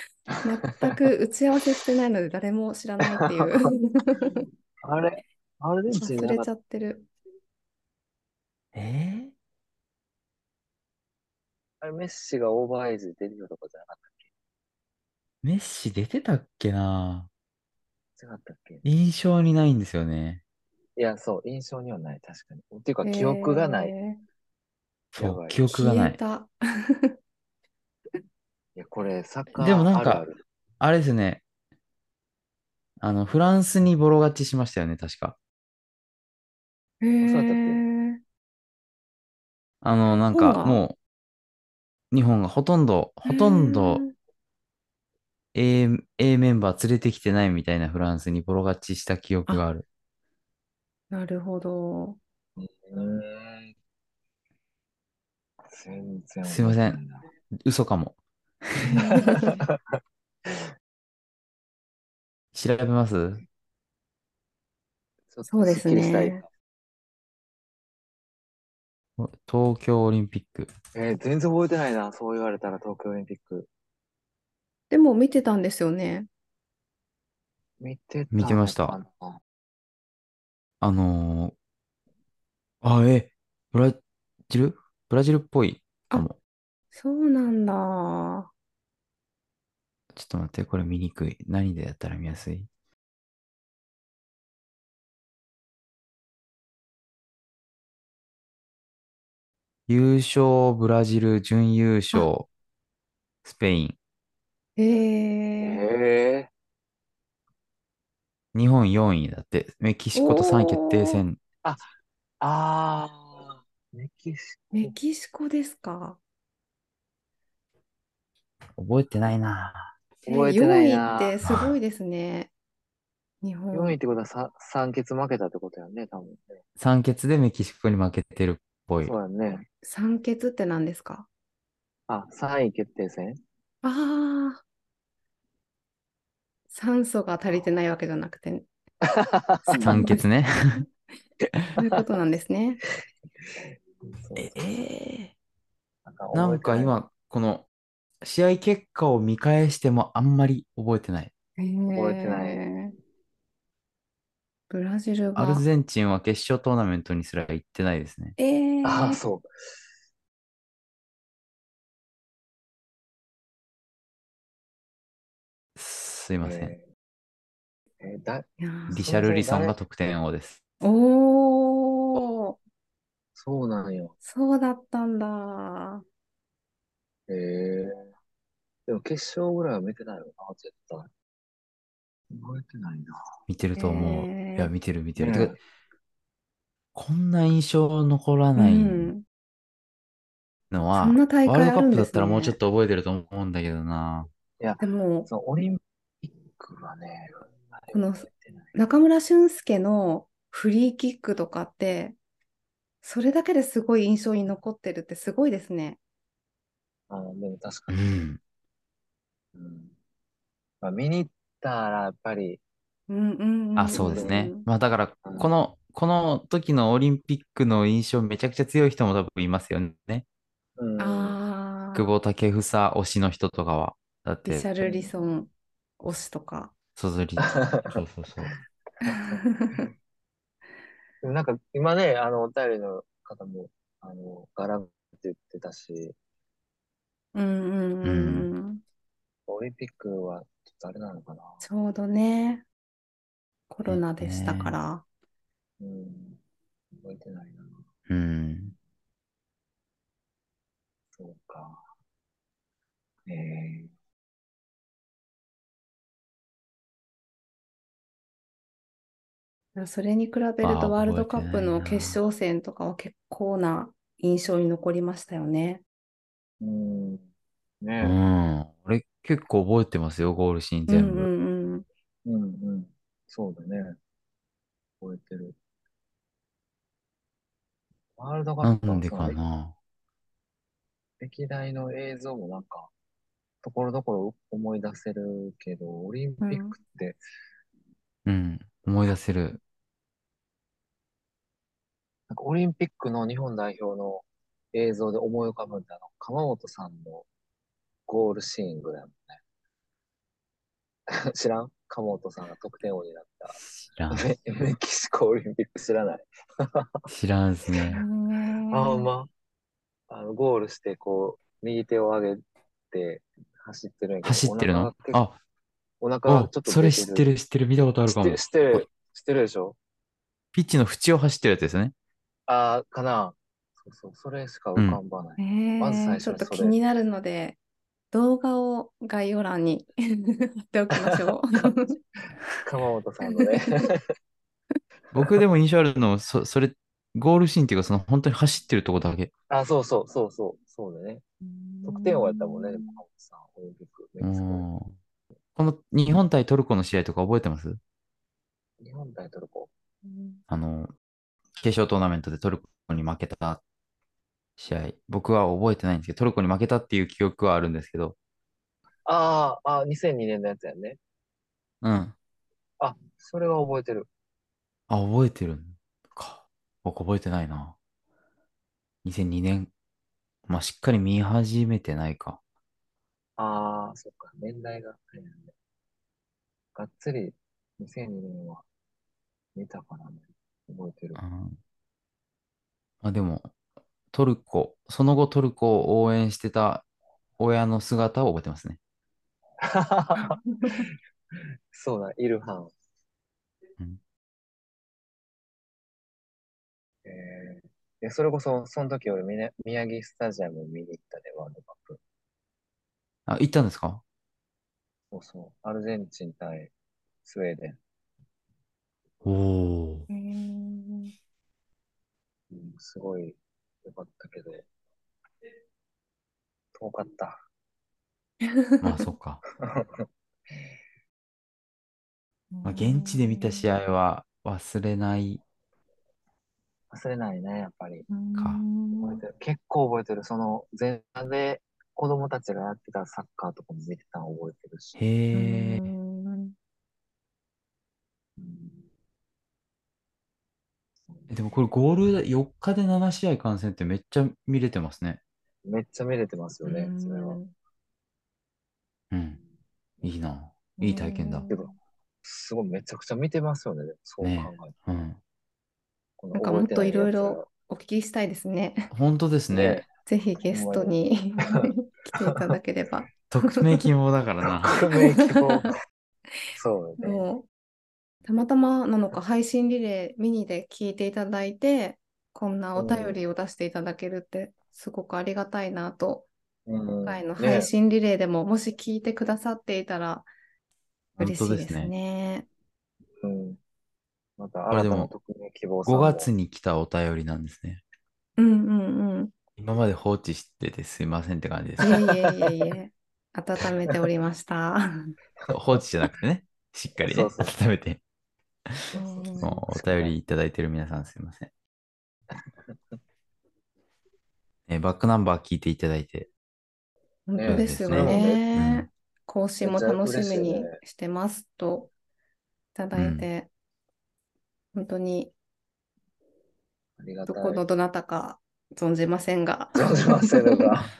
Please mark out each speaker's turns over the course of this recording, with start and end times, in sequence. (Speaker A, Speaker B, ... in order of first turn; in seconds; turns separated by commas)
Speaker A: 0.4-4.5, Speaker B: 3.1-3.5, Speaker B: 4.8-6.5, Speaker A: 5.9-7.1, Speaker C: 8.7-9.3, Speaker B: 11.8-14.3, Speaker C: 15.4-17.3, Speaker B: 18.2-18.9, Speaker C: 18.9-20.4, Speaker B: 21.0-23.9, Speaker A: 23.0-24.2, Speaker C: 25.1-26.2, Speaker B: 25.2-25.8, Speaker A: 25.7-27.1, Speaker B: 28.8-30.4, Speaker C: 29.6-30.2, Speaker C: 30.8-31.4, Speaker C: 33.0-35.4, Speaker A: 37.0-38.2, Speaker B: 37.2-37.8, Speaker C: 39.8-41.0, Speaker A: 40.3-40.8, Speaker C: 42.1-44.0, Speaker A: 43.3-44.1, Speaker C: 45.5-49.9, Speaker A: 51.1-52.2, Speaker B: 52.6-53.7, Speaker B: 55.7-57.2, Speaker C: 56.5-57.0, Speaker C: 57.6-58.9, Speaker A: 58.8-59.6, Speaker B: 59.0-59.8, Speaker C: 62.5-63.4, Speaker B: 65.3-66.4, Speaker A: 65.5-66.4, Speaker C: 69.2-70.7, Speaker B: 71.0-73.7, Speaker A: 74.9-76.3, Speaker B: 77.8-79.4, Speaker C: 78.3-79.0, Speaker C: 80.8-81.5, Speaker C: 82.8-86.4, Speaker A: 86.9-88.5, Speaker C: 90.1-92.7, Speaker C: 99.9-102.5, Speaker C: 103.4-104.0, Speaker A: 104.8-105.8, Speaker B: 105.6-106.5, Speaker C: 108.5-111.4, Speaker A: 110.2-111.2, Speaker B: 112.4-114.9, Speaker A: 114.7-116.2, Speaker C: 118.8-120.0, Speaker B: 120.2-121.4, Speaker A: 120.3-122.5, Speaker C: 121.5-121.8, Speaker A: 123.4-124.0, Speaker B: 123.7-126.6, Speaker C: 126.8-129.2, Speaker B: 129.0-129.7, Speaker A: 129.8-131.3, Speaker B: 132.1-133.4, Speaker A: 133.8-134.6, Speaker A: 136.7-138.7, Speaker B: 139.0-140.0, Speaker A: 139.7-140.3, Speaker C: 139.8-140.8, Speaker A: 141.8-142.8, Speaker B: 143.5-144.7, Speaker C: 144.4-145.3, Speaker B: 146.1-147.0, Speaker C: 146.3-147.7, Speaker C: 148.2-151.3, Speaker A: 151.6-152.9, Speaker B: 151.9-152.7, Speaker A: 154.7-155.7, Speaker C: 155.3-158.4, Speaker A: 158.4-159.2, Speaker B: 158.8-159.5, Speaker C: 165.8-166.7, Speaker B: 166.4-166.8, Speaker B: 168.0-168.5, Speaker A: 168.6-169.5, Speaker C: 168.9-170.6, Speaker B: 169.0-169.8, Speaker A: 170.8-172.6, Speaker B: 173.4-174.2, Speaker A: 174.2-176.0, Speaker B: 177.3-178.1, Speaker B: 178.9-181.1, Speaker B: 182.3-183.2, Speaker C: 183.5-185.6, Speaker A: 183.8-184.7, Speaker B: 185.2-185.6, Speaker C: 186.9-189.1, Speaker A: 188.6-189.2, Speaker C: 190.7-194.3, Speaker A: 191.0-192.6, Speaker B: 194.6-198.8, Speaker A: 194.8-195.3, Speaker A: 197.9-202.2, Speaker A: 203.0-206.0, Speaker B: 207.1-208.2, Speaker C: 207.9-208.4, Speaker B: 209.6-209.9, Speaker B: 210.8-212.6, Speaker A: 213.1-214.7, Speaker C: 213.8-220.2, Speaker B: 214.1-214.4, Speaker B: 215.2-215.5, Speaker B: 220.8-221.4, Speaker A: 221.0-222.1, Speaker C: 221.9-224.7, Speaker A: 224.5-226.7, Speaker B: 224.8-225.1, Speaker C: 227.0-228.5, Speaker B: 227.4-228.0, Speaker A: 229.0-229.9, Speaker B: 229.1-229.8, Speaker B: 231.2-236.2, Speaker A: 237.3-238.8, Speaker C: 238.0-238.5, Speaker B: 239.5-241.6, Speaker A: 241.6-242.7, Speaker A: 243.7-245.1, Speaker C: 243.8-244.8, Speaker B: 245.8-246.4, Speaker B: 246.9-247.8, Speaker C: 248.1-248.7, Speaker B: 251.2-251.9, Speaker B: 253.3-253.9, Speaker A: 259.8-265.8, Speaker C: 260.6-262.2, Speaker B: 266.6-267.3, Speaker B: 267.8-268.2, Speaker C: 268.0-271.3, Speaker A: 270.9-271.9, Speaker B: 272.2-274.0, Speaker B: 275.0-275.6, Speaker B: 278.2-279.4, Speaker C: 278.6-279.8, Speaker B: 281.2-282.9, Speaker B: 283.6-287.2, Speaker A: 286.4-286.8, Speaker C: 288.3-289.6, Speaker B: 292.3-297.3, Speaker B: 298.1-299.4, Speaker B: 301.1-303.6, Speaker C: 303.6-304.3, Speaker B: 304.1-306.9, Speaker C: 307.1-308.0, Speaker A: 307.9-309.1, Speaker B: 308.7-309.3, Speaker B: 310.1-315.2, Speaker C: 314.2-315.4, Speaker B: 316.0-317.3, Speaker C: 316.3-318.9, Speaker B: 318.1-319.8, Speaker C: 320.5-321.9, Speaker B: 322.5-326.8, Speaker A: 325.4-327.6, Speaker A: 328.1-331.9, Speaker B: 330.9-331.3, Speaker B: 332.6-334.1, Speaker A: 333.3-333.9, Speaker B: 335.1-335.4, Speaker C: 335.1-339.3, Speaker B: 339.5-341.2, Speaker A: 341.4-343.0, Speaker B: 341.9-344.7, Speaker C: 344.2-344.9, Speaker C: 345.6-347.8, Speaker B: 348.8-349.7, Speaker A: 350.0-350.4, Speaker C: 350.5-350.9, Speaker C: 351.6-353.6, Speaker C: 354.6-358.2, Speaker B: 359.1-361.0, Speaker C: 361.8-362.2, Speaker B: 362.8-364.1, Speaker C: 364.9-367.8, Speaker C: 369.0-369.7, Speaker C: 370.5-372.4, Speaker B: 373.4-375.5, Speaker B: 376.8-378.6, Speaker B: 379.6-381.2, Speaker C: 381.2-381.6, Speaker C: 383.0-383.5, Speaker C: 384.1-386.9, Speaker C: 387.4-388.8, Speaker B: 389.6-390.9, Speaker A: 390.2-390.9, Speaker B: 391.7-392.7, Speaker B: 397.1-402.0, Speaker C: 403.3-404.0, Speaker B: 405.1-406.7, Speaker B: 407.2-407.8, Speaker C: 409.2-410.1, Speaker A: 410.1-411.1, Speaker B: 412.5-414.7, Speaker B: 416.8-417.4, Speaker A: 418.4-419.1, Speaker C: 418.8-419.4, Speaker B: 419.6-420.1, Speaker A: 422.5-423.7, Speaker C: 422.6-425.4, Speaker B: 426.9-428.1, Speaker A: 428.1-429.2, Speaker C: 428.4-428.6, Speaker B: 429.0-435.0, Speaker C: 435.0-435.9, Speaker A: 435.3-436.6, Speaker B: 438.4-438.9, Speaker C: 441.3-445.2, Speaker B: 445.6-447.4, Speaker A: 446.6-447.5, Speaker C: 449.1-449.4, Speaker C: 450.0-451.5, Speaker A: 450.8-451.7, Speaker B: 451.5-454.8, Speaker C: 454.2-455.2, Speaker B: 456.2-457.5, Speaker A: 456.3-458.9, Speaker C: 458.9-459.8, Speaker B: 459.5-459.9, Speaker A: 460.0-463.9, Speaker B: 460.5-461.7, Speaker B: 462.2-462.6, Speaker C: 463.3-464.8, Speaker B: 464.6-465.8, Speaker A: 464.9-465.7, Speaker B: 466.5-467.2, Speaker A: 467.0-467.5, Speaker A: 468.3-476.3, Speaker B: 472.8-473.2, Speaker B: 476.7-477.7, Speaker A: 477.0-480.3, Speaker C: 481.2-481.9, Speaker A: 481.2-482.5, Speaker B: 483.2-483.6, Speaker B: 484.4-486.3, Speaker C: 484.7-485.1, Speaker C: 485.9-487.8, Speaker A: 488.4-489.3, Speaker C: 489.6-491.9, Speaker A: 491.8-495.1, Speaker B: 491.8-492.6, Speaker C: 495.5-498.0, Speaker B: 497.0-497.5, Speaker A: 498.9-499.6, Speaker B: 499.0-500.1, Speaker C: 499.4-501.5, Speaker C: 504.7-506.3, Speaker A: 507.3-511.9, Speaker B: 507.4-508.5, Speaker C: 507.5-508.9, Speaker B: 509.6-510.8, Speaker A: 512.8-513.5, Speaker C: 513.0-513.3, Speaker A: 514.7-515.3, Speaker B: 517.0-517.6, Speaker A: 517.3-520.8, Speaker B: 519.7-520.9